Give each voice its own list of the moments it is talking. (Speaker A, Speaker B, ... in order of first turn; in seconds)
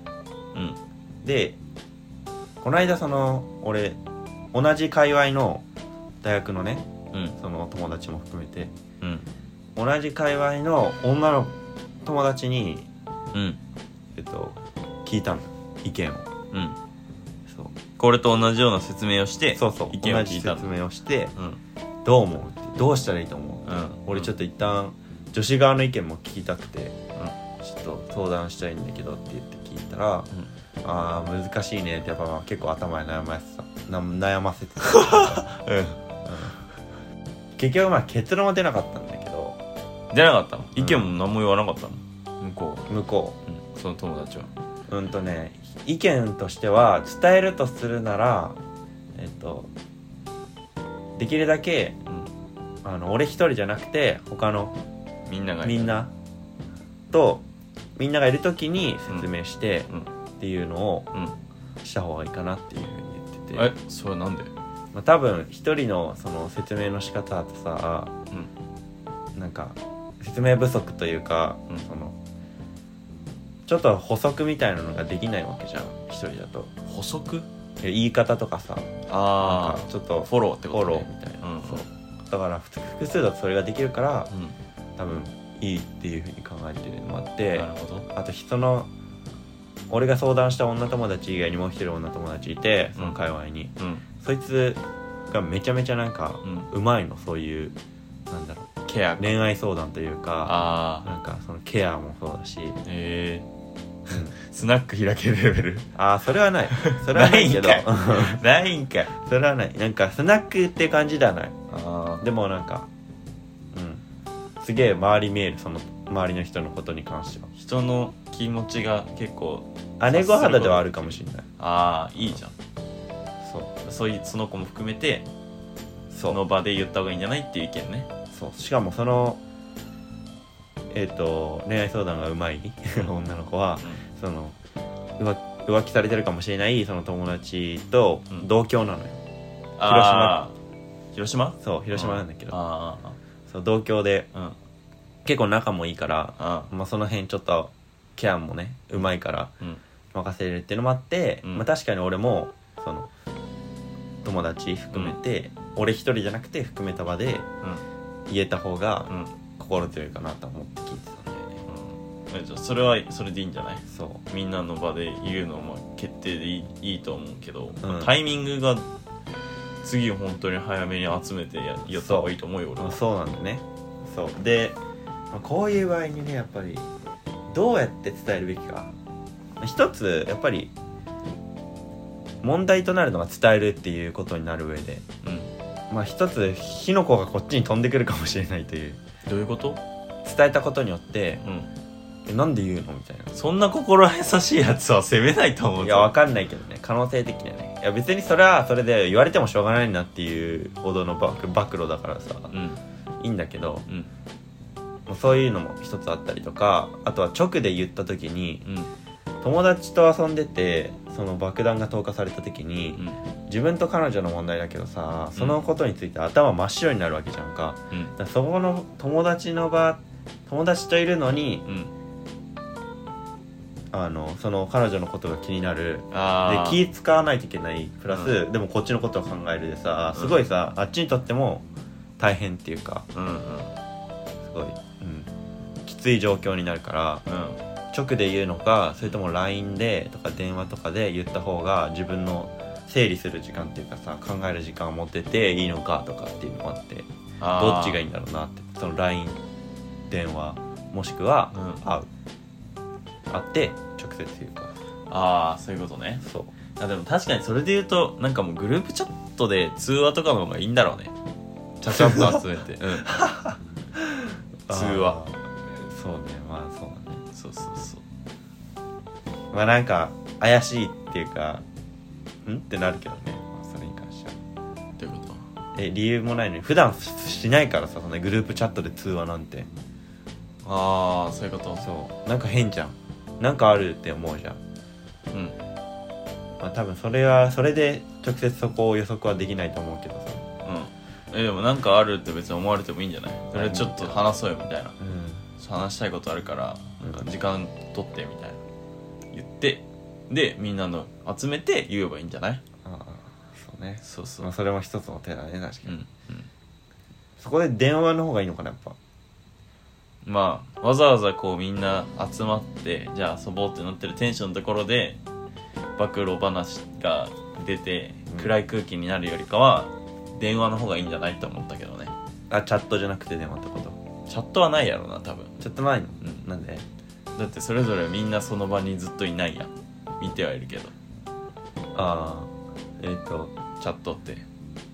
Speaker A: 0.5-0.8, 7.1-7.4, 9.0-9.3, 13.3-13.6, 16.5-16.8, 18.0-20.7, 23.6-24.3, 34.8-36.0, 40.1-42.9, 43.5-44.5, 55.3-56.0, 63.5-64.5, 76.8-77.5, 79.1-81.9, 84.3-84.6, 87.5-88.1, 93.0-93.2, 93.8-94.0, 96.4-96.7, 98.8-99.5, 100.5-101.1, 102.8-103.5, 104.1-105.9, 106.7-109.1, 111.7-112.2, 117.5-122.5, 123.8-125.3, 126.3-128.1, 133.8-134.0, 139.8-140.6, 141.1-143.2, 146.4-146.7, 154.9-155.2, 159.1-159.3, 161.7-168.8, 169.8-173.0, 185.2-185.5, 189.2-189.8, 191.4-191.7, 193.3-196.1, 202.5-202.8, 208.7-208.9, 215.3-215.6, 221.7-221.9, 226.1-226.8, 228.1-228.4, 230.1-230.5, 233.1-233.8, 237.3-237.6, 247.4-248.1, 251.5-251.8, 255.1-256.2, 256.8-261.1, 261.8-263.1, 264.7-265.2, 267.3-268.0, 275.0-275.4, 280.6-281.9, 285.3-285.6, 290.6-295.0, 295.6-298.6, 299.3-302.6, 304.0-304.5, 305.9-306.5, 310.2-315.2, 316.0-322.1, 324.3-325.5, 327.4-330.9, 333.8-334.4
Speaker B: 1.2-1.6, 2.6-4.0, 4.5-5.6, 6.2-6.9, 7.4-8.7, 9.8-12.9, 14.2-16.3, 17.5-17.7, 19.5-21.3, 22.1-27.0, 27.6-30.3, 30.8-35.5, 36.2-36.6, 37.6-39.6, 40.8-41.1, 42.9-43.4, 44.9-48.6, 49.1-49.7, 51.2-52.0, 52.9-54.8, 55.6-56.1, 57.1-57.5, 58.0-61.1, 61.8-63.7, 64.9-68.1, 69.4-72.2, 73.7-76.8, 77.8-84.3, 85.0-88.9, 89.9-97.8, 98.3-102.8, 106.0-108.4, 109.1-111.6, 112.2-112.9, 113.7-114.0, 114.6-117.5, 120.0-121.5, 123.4-123.8, 126.1-126.4, 128.3-129.4, 130.9-134.6, 135.2-139.2, 139.8-140.4, 141.6-142.6, 143.5-144.3, 145.2-149.5, 150.1-153.1, 154.2-157.5, 158.3-161.6, 163.9-164.3, 167.8-168.1, 171.9-174.8, 175.3-176.9, 177.5-178.9, 179.6-180.7, 182.4-185.1, 185.9-189.0, 190.2-191.4, 192.3-193.3, 195.8-202.5, 203.2-203.9, 205.1-208.7, 209.4-221.7, 223.9-231.7, 232.2-233.1, 234.4-235.3, 235.8-237.2, 237.9-249.4, 250.1-252.1, 253.3-254.7, 256.2-256.5, 261.9-262.4, 263.0-267.2, 269.5-271.6, 272.5-274.4, 275.8-279.7, 281.8-284.6, 286.6-290.5, 293.5-294.4, 295.0-295.5, 297.0-297.3, 302.8-306.0, 307.4-309.0, 322.5-324.0, 325.6-326.9, 331.9-333.6